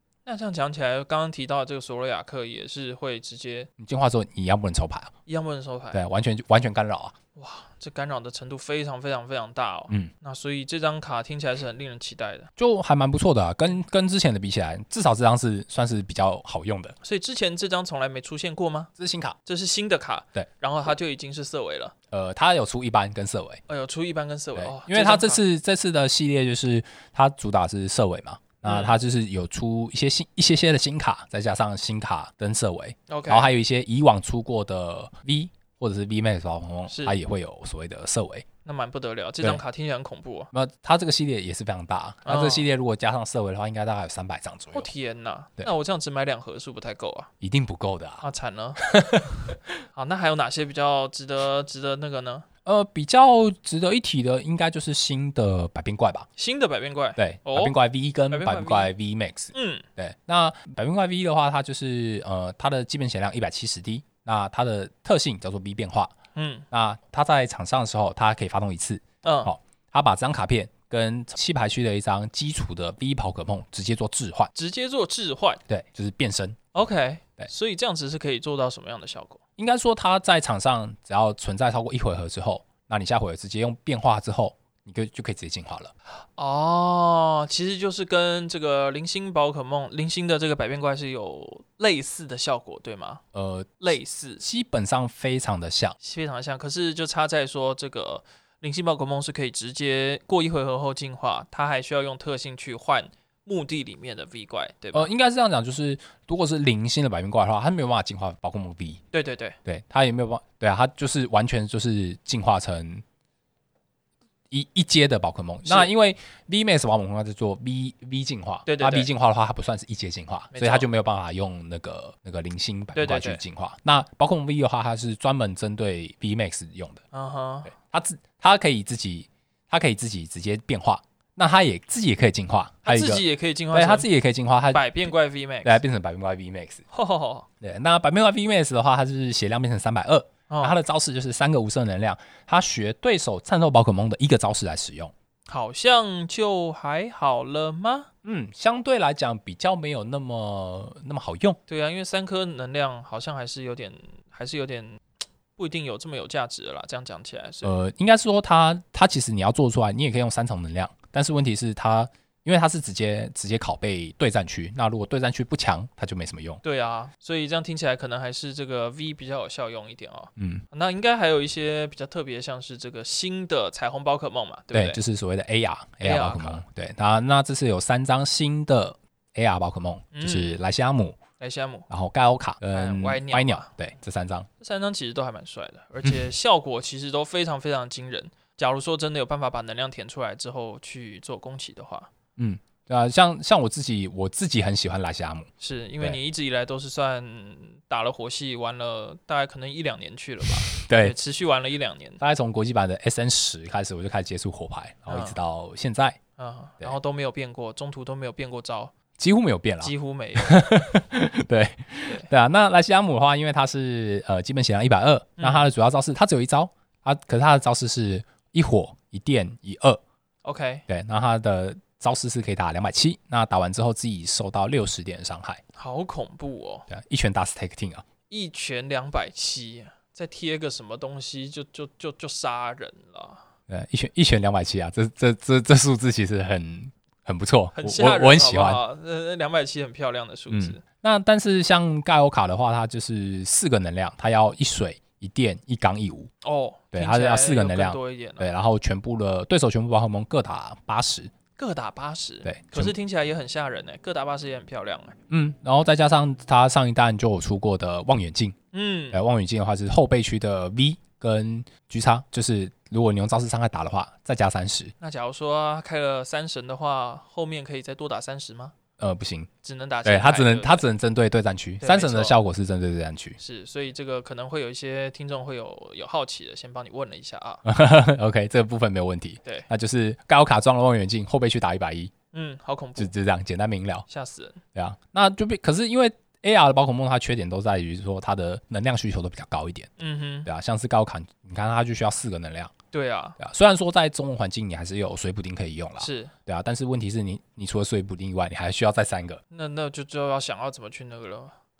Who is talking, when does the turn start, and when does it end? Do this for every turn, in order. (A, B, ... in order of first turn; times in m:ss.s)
0:00.2-0:03.7 A
0:03.8-0:05.1 B
0:05.3-0:06.0 A
0:05.9-0:07.2 B
0:07.4-0:12.5 A
0:12.6-0:16.9 B
0:17.0-0:18.9 A
0:19.0-0:19.4 B
0:19.4-0:21.9 A
0:22.1-0:23.6 B
0:23.7-0:25.4 A
0:24.6-0:38.4 B
0:28.6-0:29.0 A
0:33.1-0:33.5 A
0:36.9-0:37.2 A
0:38.6-0:40.5 A
0:40.5-0:44.9 B
0:42.2-0:42.7 A
0:44.7-0:47.3 A
0:47.4-0:48.2 B
0:48.2-0:52.4 A
0:48.8-0:49.4 B
0:52.6-0:56.3 B
0:56.4-0:57.7 A
0:57.2-1:06.1 B
0:58.3-0:58.9 A
0:59.5-0:59.8 A
1:06.3-1:06.6 A
1:06.7-1:14.5 B
1:09.2-1:09.5 A
1:14.5-1:15.6 A
1:15.7-1:16.6 B
1:16.7-1:19.4 A
1:19.6-1:25.9 B
1:26.4-1:33.2 A
1:33.3-1:36.0 B
1:33.8-1:34.4 A
1:36.0-1:45.1 A
1:44.9-1:49.0 B
1:49.1-1:49.6 A
1:49.6-1:53.0 B
1:54.5-2:07.0 B
1:55.6-1:55.9 A
1:58.6-1:59.1 A
2:00.5-2:00.9 A
2:02.9-2:03.4 A
2:07.1-2:07.7 A
2:07.7-2:15.1 B
2:12.8-2:14.1 A
2:14.7-2:15.8 A
2:15.6-2:16.8 B
2:16.9-2:17.5 A
2:17.6-2:25.1 B
2:20.5-2:20.8 A
2:25.5-2:28.1 A
2:28.2-2:31.6 B
2:31.7-2:35.0 A
2:35.6-2:37.7 A
2:37.6-2:46.6 B
2:46.6-2:55.0 A
2:50.4-2:50.6 B
2:54.7-3:01.2 B
2:56.0-2:56.6 A
3:00.1-3:00.6 A
3:01.4-3:01.9 A
3:01.9-3:04.5 B
3:02.7-3:03.7 A
3:04.6-3:12.1 A
3:12.4-3:15.5 B
3:15.6-3:22.2 A
3:20.6-3:21.2 B
3:22.2-3:26.2 B
3:25.1-3:25.4 A
3:26.4-3:28.9 A
3:29.2-3:40.0 B
3:29.8-3:30.9 A
3:35.4-3:35.7 A
3:40.4-3:40.8 A
3:40.9-3:45.6 B
3:45.8-3:46.9 A
3:46.9-3:48.0 B
3:48.3-3:53.4 A
3:53.7-3:58.8 B
3:57.7-4:00.8 A
4:00.5-4:06.3 B
4:06.4-4:08.5 A
4:06.9-4:11.3 B
4:11.6-4:15.2 A
4:12.4-4:12.9 B
4:15.3-4:18.6 B
4:18.7-4:19.2 A
4:19.1-4:24.9 B
4:25.0-4:28.7 A
4:29.0-4:29.5 B
4:29.6-4:30.8 A
4:30.0-4:33.4 B
4:31.8-4:32.4 A
4:33.4-4:37.6 A
4:37.6-4:42.1 B
4:42.3-4:43.1 A
4:43.0-4:44.0 B
4:44.1-4:44.6 A
4:44.7-4:49.9 B
4:50.0-4:50.5 A
4:50.4-4:52.7 B
4:52.9-4:53.4 A
4:53.4-4:59.4 B
4:56.0-4:56.3 A
4:59.5-5:01.5 A